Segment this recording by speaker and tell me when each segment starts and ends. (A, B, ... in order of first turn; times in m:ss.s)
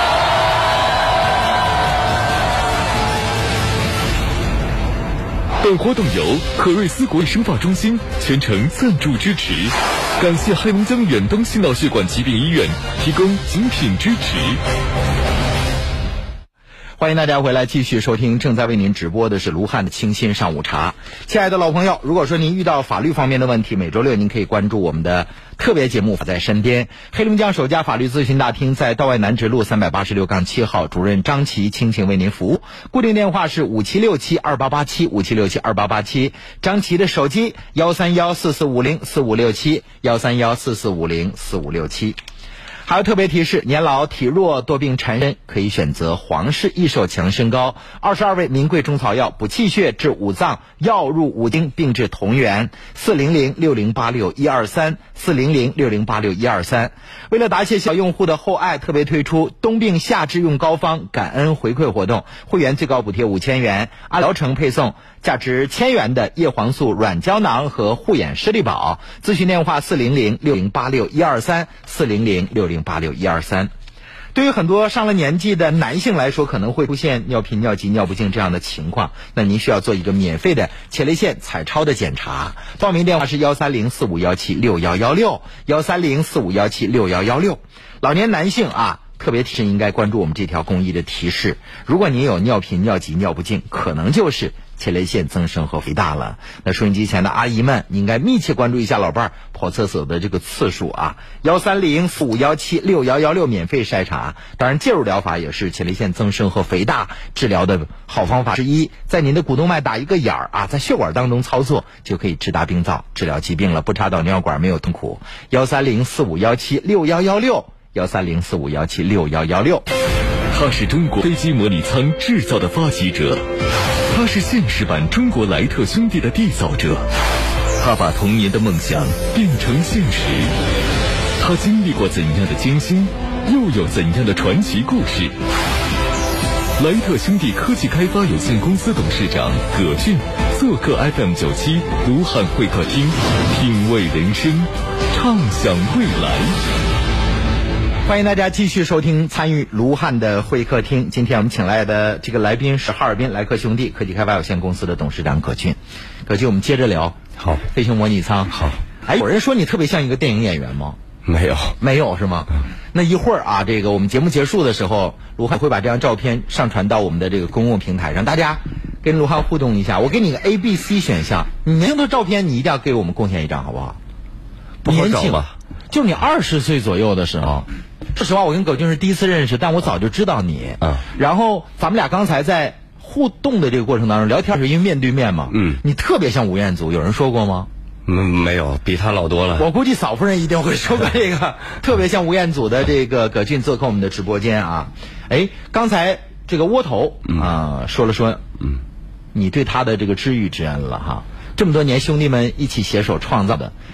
0:05.6-0:14.6 A
0:17.0-0:42.2 B
0:42.8-1:13.7 B
1:14.3-1:59.8 B
2:00.5-2:03.4 A
2:04.1-2:07.0 A
2:07.8-2:10.5 A
2:11.4-2:15.3 A
2:16.8-2:26.6 A
2:28.0-2:41.0 B
2:37.4-2:37.6 C
2:38.5-2:38.8 C
2:41.2-2:41.8 C
2:41.8-2:54.0 B
2:54.8-2:55.5 C
2:54.8-3:07.7 B
3:05.5-3:05.8 C
3:08.0-3:09.7 C
3:09.6-3:18.4 B
3:19.3-3:23.7 B